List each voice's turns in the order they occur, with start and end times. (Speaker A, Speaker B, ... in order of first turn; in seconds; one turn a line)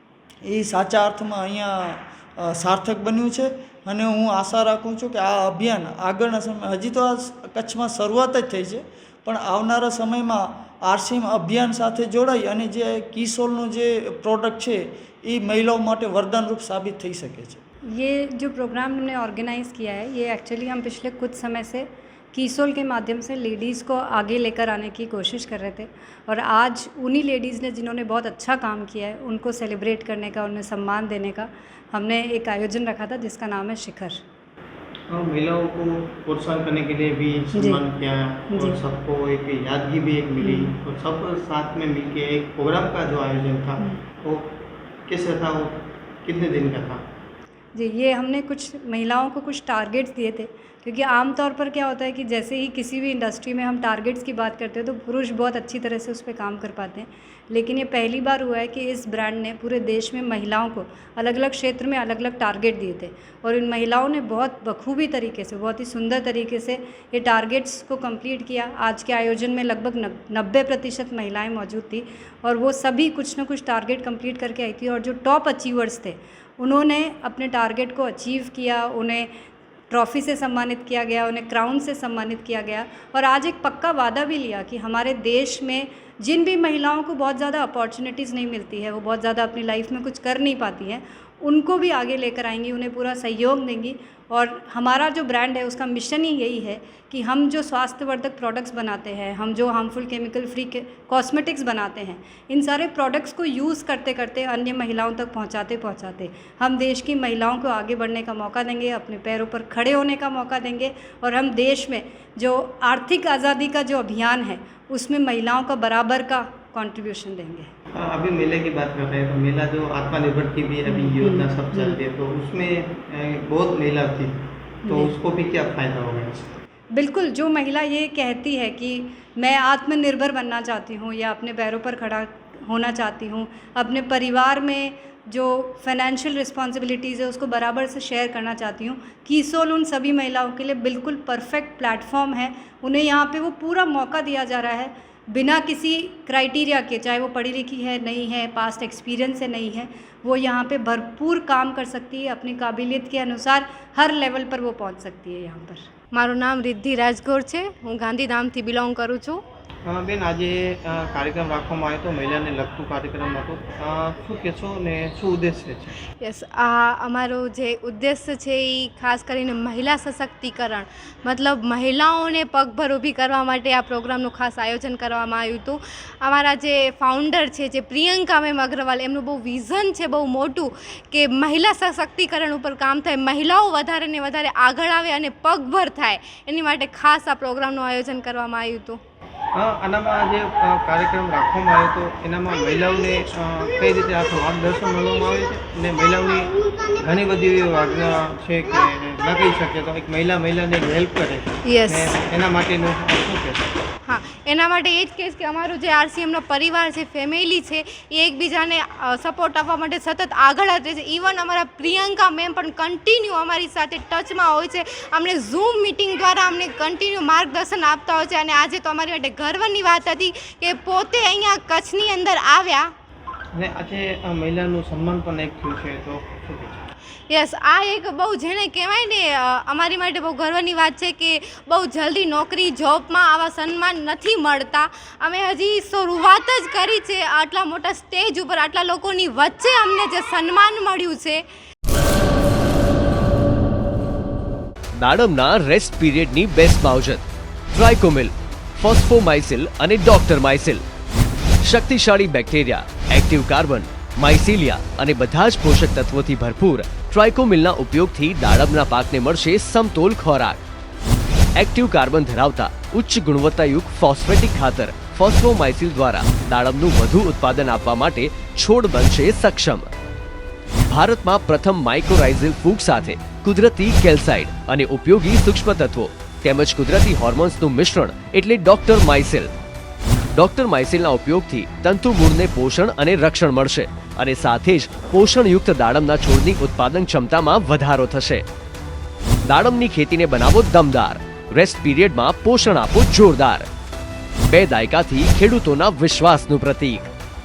Speaker A: 0.4-17.6
Speaker B: 17.9-34.2
Speaker C: 35.1-44.5
Speaker B: 37.5-37.8
Speaker B: 38.5-38.8
Speaker B: 40.4-40.7
Speaker C: 45.1-47.0
Speaker B: 47.8-79.3
Speaker B: 79.9-117.7
Speaker C: 117.9-126.5
Speaker B: 120.8-122.0
Speaker B: 124.8-125.1
Speaker B: 126.9-155.9
Speaker D: 156.1-159.4
Speaker C: 159.8-166.0
Speaker D: 166.2-189.0
Speaker C: 189.5-203.7
Speaker D: 201.7-202.2
Speaker D: 204.1-222.9
Speaker C: 223.5-226.9
Speaker D: 227.3-241.4
Speaker E: 244.9-250.8
Speaker E: 251.6-260.6
Speaker E: 261.6-269.9
Speaker E: 270.9-279.5
Speaker E: 280.3-288.4
Speaker E: 289.4-293.7
Speaker E: 294.5-297.1